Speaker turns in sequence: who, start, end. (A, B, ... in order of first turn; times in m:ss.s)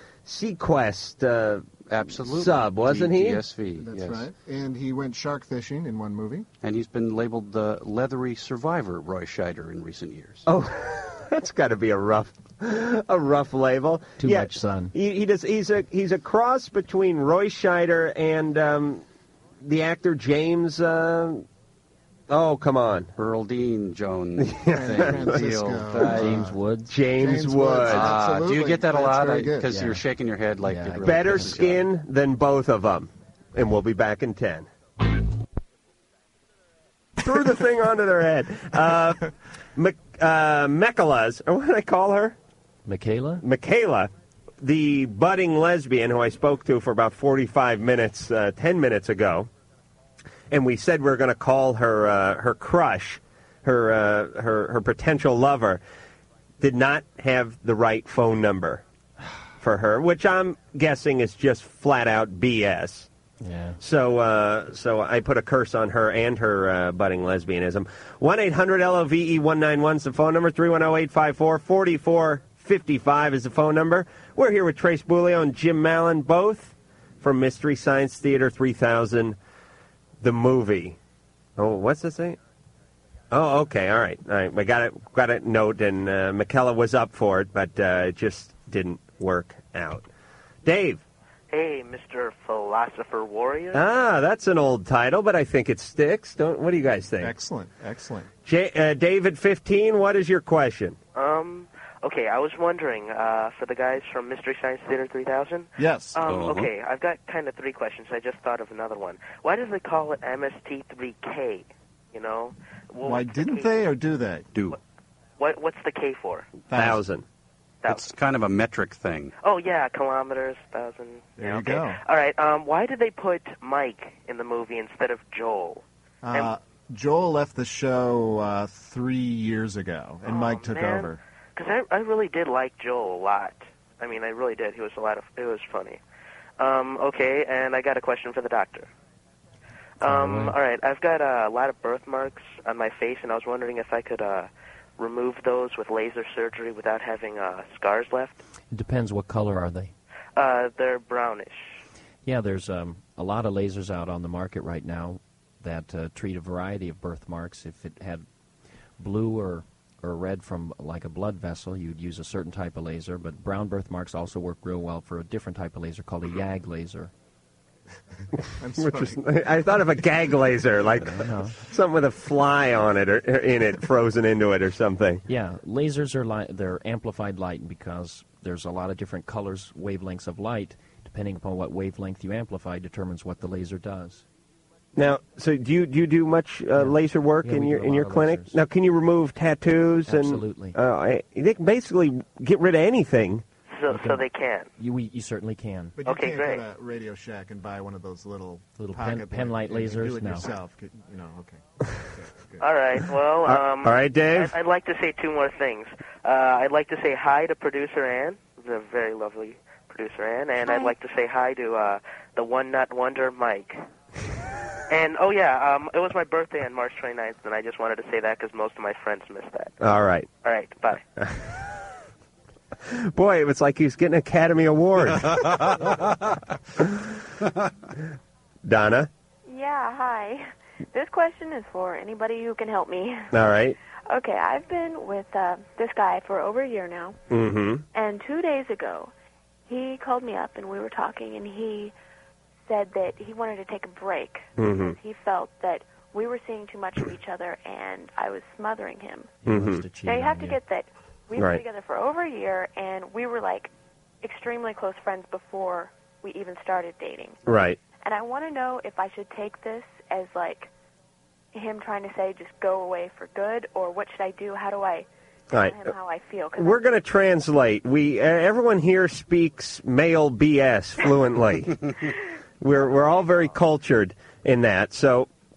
0:00.2-0:03.4 A
0:01.9-0:04.3 B
0:03.8-0:06.5 C
0:06.6-0:10.5 B
0:10.5-0:19.0 A
0:14.2-0:14.9 D
0:19.6-0:21.5 A
0:22.3-0:23.1 A
0:23.2-0:26.5 B
0:24.4-0:25.4 A
0:24.7-0:26.6 C
0:25.9-0:27.0 D
0:26.9-0:28.2 A
0:27.1-0:29.7 C
0:27.8-0:31.8 B
0:29.7-0:30.0 D
0:30.6-0:31.6 D
0:31.0-0:34.7 A
0:37.2-0:39.2 A
0:39.8-0:42.4 A
0:42.9-0:43.4 D
0:43.4-0:49.5 A
0:50.5-0:55.8 A
0:56.6-0:58.8 A
0:59.6-1:03.1 A
1:03.4-1:03.8 D
1:03.8-1:19.4 A
1:20.2-1:21.0 A
1:21.6-1:22.4 A
1:23.3-1:30.1 A
1:30.6-1:31.0 A
1:31.5-1:33.8 E
1:33.7-1:37.3 A
1:37.2-1:38.3 C
1:38.5-1:41.0 A
1:41.2-1:53.9 E
1:45.8-1:46.2 C
1:46.2-1:46.7 B
1:53.0-1:54.7 C
1:55.4-1:56.5 E
1:56.7-1:57.0 C
1:56.7-1:57.2 A
1:57.8-1:58.1 E
1:57.9-1:59.3 B
1:59.4-2:06.5 E
2:01.4-2:02.0 C
2:06.2-2:11.2 C
2:10.3-2:16.0 E
2:16.6-2:18.9 E
2:20.0-2:28.4 E
2:20.0-2:20.6 D
2:28.7-2:29.9 D
2:30.4-2:31.8 E
2:32.2-2:38.2 D
2:39.0-2:47.1 D
2:48.6-2:49.2 C
2:48.8-2:55.2 A
2:51.1-2:51.6 D
2:55.3-3:04.2 D
3:05.0-3:13.4 A
3:06.8-3:08.6 D
3:10.1-3:10.8 D
3:13.7-3:14.7 E
3:13.9-3:16.0 D
3:16.0-3:22.7 C
3:16.0-3:16.6 E
3:18.8-3:20.5 D
3:22.6-3:33.8 E
3:23.4-3:24.5 A
3:34.9-3:39.7 E
3:39.8-3:40.3 A
3:40.4-3:41.0 E
3:41.2-3:41.6 A
3:42.9-3:45.7 A
3:48.6-3:49.1 A
3:49.5-3:53.3 F
3:53.3-3:53.8 A
3:54.1-3:57.2 F
3:57.3-3:57.8 A
3:57.9-3:59.1 F
3:59.7-4:01.9 F
4:02.6-4:09.4 F
4:04.6-4:05.0 A
4:09.4-4:10.6 D
4:09.5-4:09.8 A
4:10.0-4:13.7 F
4:14.2-4:17.4 F
4:17.5-4:17.8 A
4:18.0-4:20.7 F
4:21.5-4:26.9 F
4:25.5-4:25.9 A
4:26.6-4:31.8 A
4:32.6-4:35.3 A